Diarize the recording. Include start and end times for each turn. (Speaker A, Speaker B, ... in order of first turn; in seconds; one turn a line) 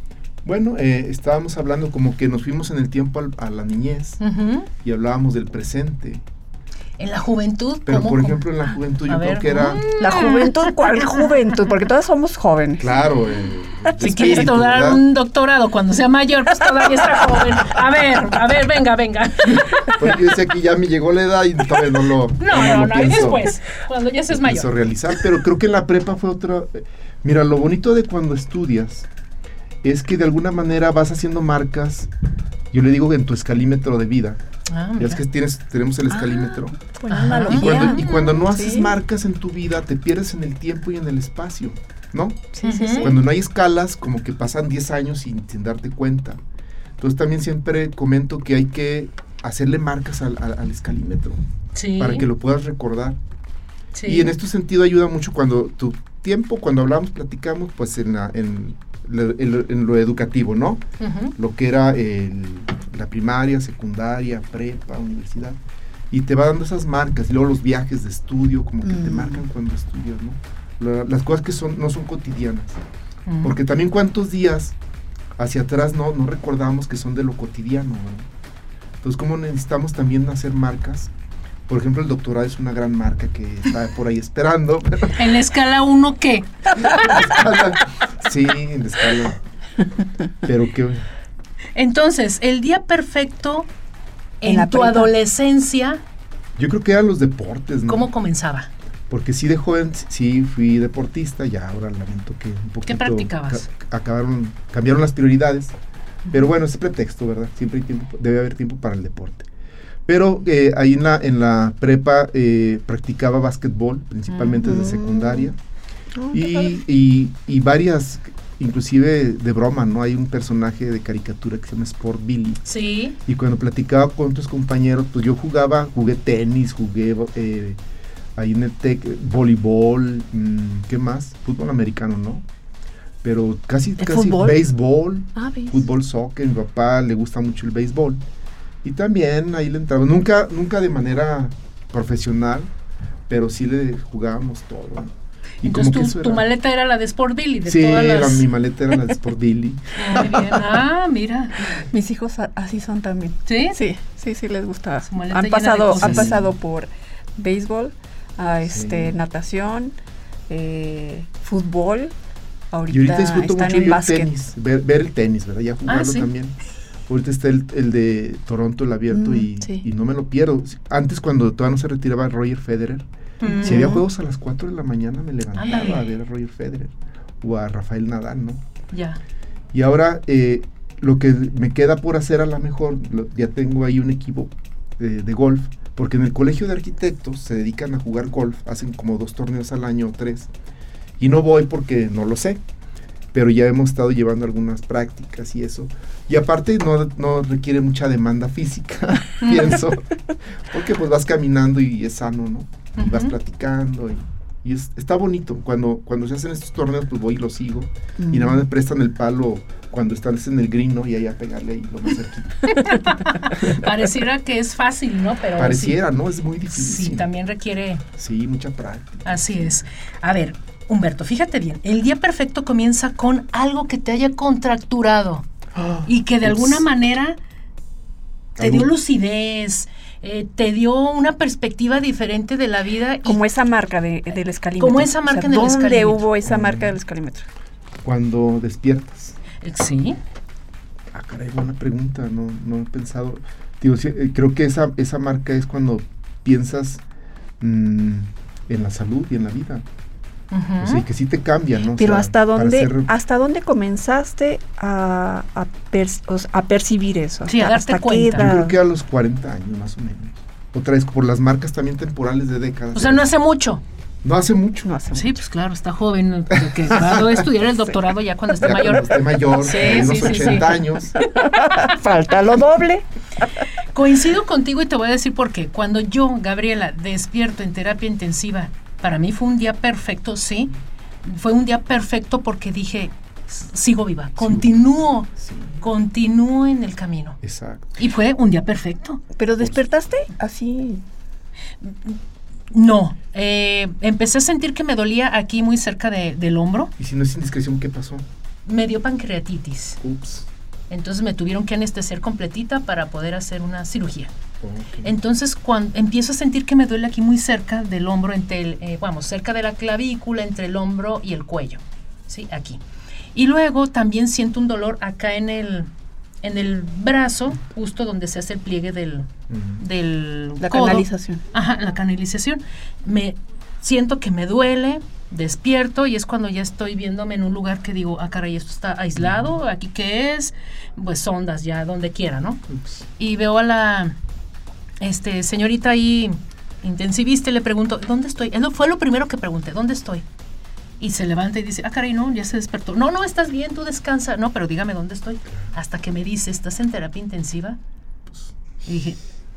Speaker A: 0.4-4.2
Speaker B: 4.2-4.7
Speaker A: 4.8-6.2
Speaker B: 7.0-8.5
Speaker A: 7.8-9.9
Speaker B: 9.1-11.2
Speaker C: 9.9-13.0
Speaker A: 12.8-15.0
Speaker C: 13.9-14.5
Speaker B: 14.0-20.0
Speaker A: 19.8-23.5
Speaker B: 22.4-24.7
Speaker A: 24.3-29.1
Speaker A: 29.8-32.1
Speaker A: 32.7-34.4
Speaker B: 34.7-35.2
Speaker A: 35.0-36.8
Speaker C: 36.1-38.9
Speaker B: 37.1-38.4
Speaker A: 37.4-46.4
Speaker C: 42.5-43.2
Speaker B: 42.6-43.1
Speaker A: 47.0-51.4
Speaker B: 51.7-52.2
Speaker A: 52.0-53.2
Speaker B: 53.9-54.3
Speaker A: 54.0-60.8
Speaker B: 61.0-61.3
Speaker A: 61.4-65.6
Speaker A: 66.1-72.8
Speaker C: 68.8-69.4
Speaker B: 73.3-73.6
Speaker A: 73.4-74.7
Speaker A: 75.4-78.3
Speaker A: 79.0-81.1
Speaker A: 81.7-85.2
Speaker B: 85.1-87.4
Speaker A: 86.8-89.4
Speaker A: 90.4-91.0
Speaker B: 91.7-93.7
Speaker B: 94.4-96.0
Speaker C: 94.4-95.1
Speaker A: 96.6-98.1
Speaker B: 97.9-98.7
Speaker A: 99.1-105.7
Speaker B: 102.8-103.7
Speaker A: 106.3-109.5
Speaker A: 110.0-115.6
Speaker B: 114.3-114.6
Speaker C: 114.6-115.5
Speaker C: 116.1-116.8
Speaker A: 116.3-122.6
Speaker B: 122.6-123.2
Speaker A: 123.2-127.8
Speaker A: 128.3-132.4
Speaker A: 133.2-138.2
Speaker C: 134.1-134.5
Speaker C: 135.3-135.8
Speaker A: 138.8-142.7
Speaker A: 143.3-146.4
Speaker B: 145.6-148.4
Speaker A: 147.7-150.7
Speaker B: 149.9-151.7
Speaker C: 151.8-159.9
Speaker B: 153.4-153.8
Speaker B: 155.1-156.3
Speaker A: 156.0-156.5
Speaker A: 158.7-159.2
Speaker C: 160.5-162.1
Speaker C: 162.7-164.3
Speaker A: 162.9-166.6
Speaker B: 165.9-166.3
Speaker A: 167.1-173.0
Speaker C: 169.1-169.8
Speaker B: 173.4-173.9
Speaker C: 173.4-174.0
Speaker A: 173.6-178.6
Speaker B: 175.5-176.1
Speaker B: 178.9-179.2
Speaker A: 179.7-190.5
Speaker A: 191.2-192.6
Speaker A: 193.3-200.1
Speaker A: 200.7-213.0
Speaker B: 203.0-203.3
Speaker C: 208.2-208.6
Speaker B: 212.7-216.0
Speaker A: 213.5-213.8
Speaker A: 215.6-217.3
Speaker B: 216.7-218.0
Speaker A: 218.2-219.8
Speaker B: 219.2-225.5
Speaker A: 225.7-226.8
Speaker B: 226.1-227.4
Speaker A: 228.6-228.9
Speaker B: 228.6-233.4
Speaker C: 233.2-237.4
Speaker B: 234.8-236.2
Speaker A: 236.4-237.0
Speaker A: 238.0-239.4
Speaker B: 239.6-240.2
Speaker A: 241.1-247.0
Speaker A: 247.6-249.8
Speaker B: 250.5-251.0
Speaker A: 250.8-253.1
Speaker C: 251.9-258.8
Speaker B: 257.5-258.5
Speaker A: 258.4-263.3
Speaker B: 262.9-263.8
Speaker A: 264.2-264.9
Speaker C: 264.8-265.4
Speaker B: 265.1-270.8
Speaker A: 266.6-267.4
Speaker A: 268.6-271.2
Speaker C: 269.6-273.1
Speaker B: 273.9-280.7
Speaker B: 281.2-287.4
Speaker A: 284.4-285.8
Speaker A: 287.4-288.0
Speaker B: 288.0-289.2
Speaker C: 289.4-291.0
Speaker B: 291.8-292.2
Speaker B: 292.7-296.9
Speaker A: 297.0-298.2
Speaker B: 298.6-300.0
Speaker A: 300.0-300.5
Speaker B: 300.9-304.3
Speaker A: 304.6-305.1
Speaker B: 305.0-312.8
Speaker B: 313.3-315.9
Speaker B: 316.4-319.3
Speaker A: 319.5-319.8
Speaker B: 319.8-332.6
Speaker C: 320.6-321.4
Speaker A: 329.2-329.6
Speaker A: 332.7-333.0
Speaker B: 333.2-334.1
Speaker B: 335.0-340.2
Speaker B: 341.0-347.8
Speaker B: 348.8-349.2